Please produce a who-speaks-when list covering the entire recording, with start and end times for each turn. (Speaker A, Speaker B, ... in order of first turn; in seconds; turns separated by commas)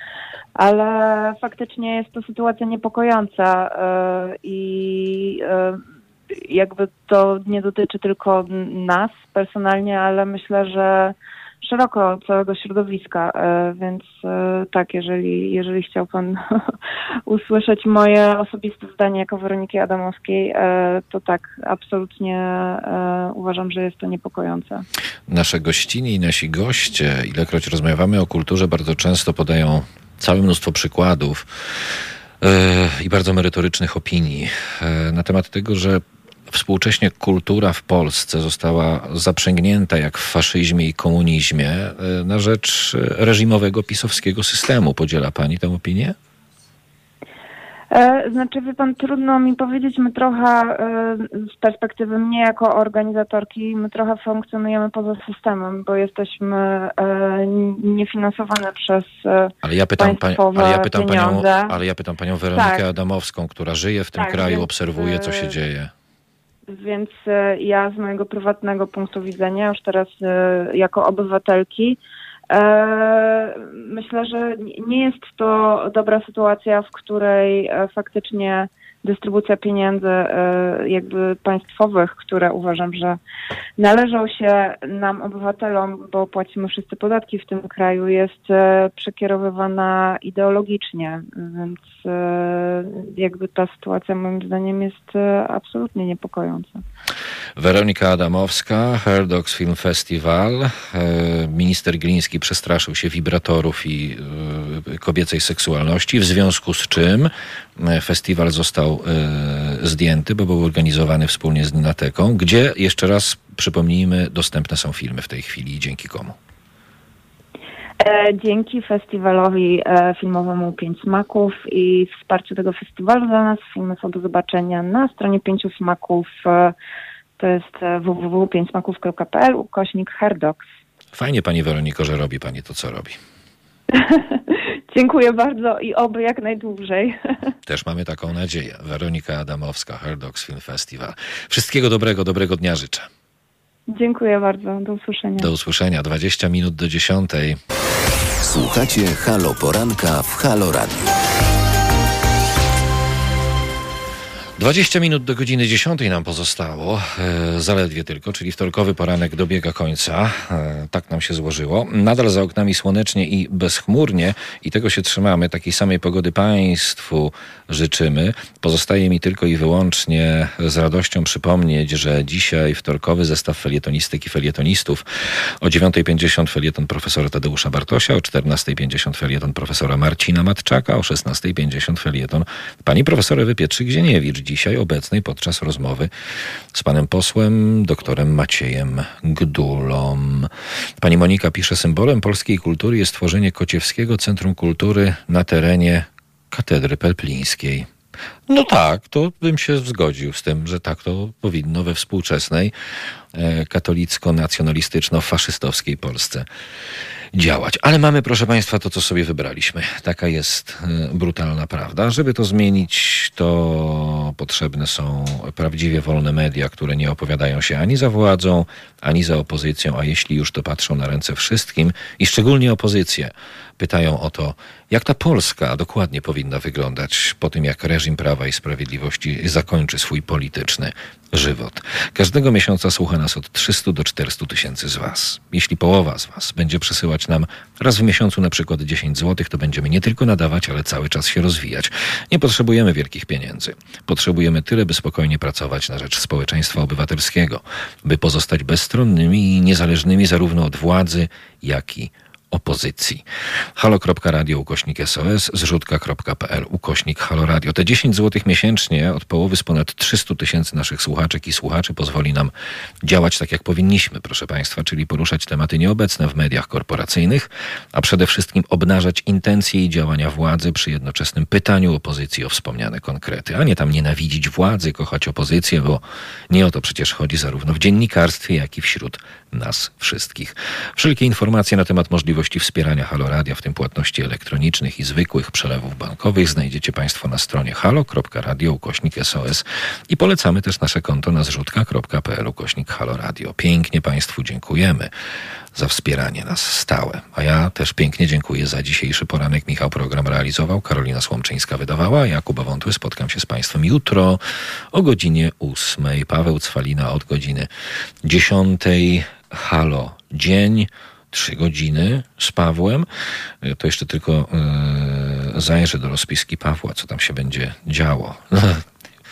Speaker A: 0.6-16.4, Speaker A: 17.3-24.8, Speaker B: 25.3-31.4, Speaker B: 32.4-46.2, Speaker A: 47.9-61.8, Speaker B: 59.6-65.9, Speaker A: 62.5-62.9, Speaker A: 64.2-65.5, Speaker A: 66.7-72.0, Speaker A: 72.5-83.2, Speaker A: 83.8-96.8, Speaker B: 97.6-116.4, Speaker A: 118.0-126.7, Speaker A: 127.4-130.6, Speaker B: 131.1-133.2, Speaker A: 133.9-137.4, Speaker B: 137.7-143.1, Speaker A: 143.9-145.5, Speaker B: 145.4-147.6, Speaker C: 148.4-151.1, Speaker B: 154.6-186.1, Speaker B: 186.7-197.9, Speaker B: 198.5-202.7, Speaker B: 203.3-206.4, Speaker B: 207.3-253.2, Speaker B: 253.8-262.5, Speaker B: 263.0-295.1, Speaker B: 295.7-304.4, Speaker B: 304.9-307.7, Speaker B: 308.2-313.1, Speaker B: 313.6-318.8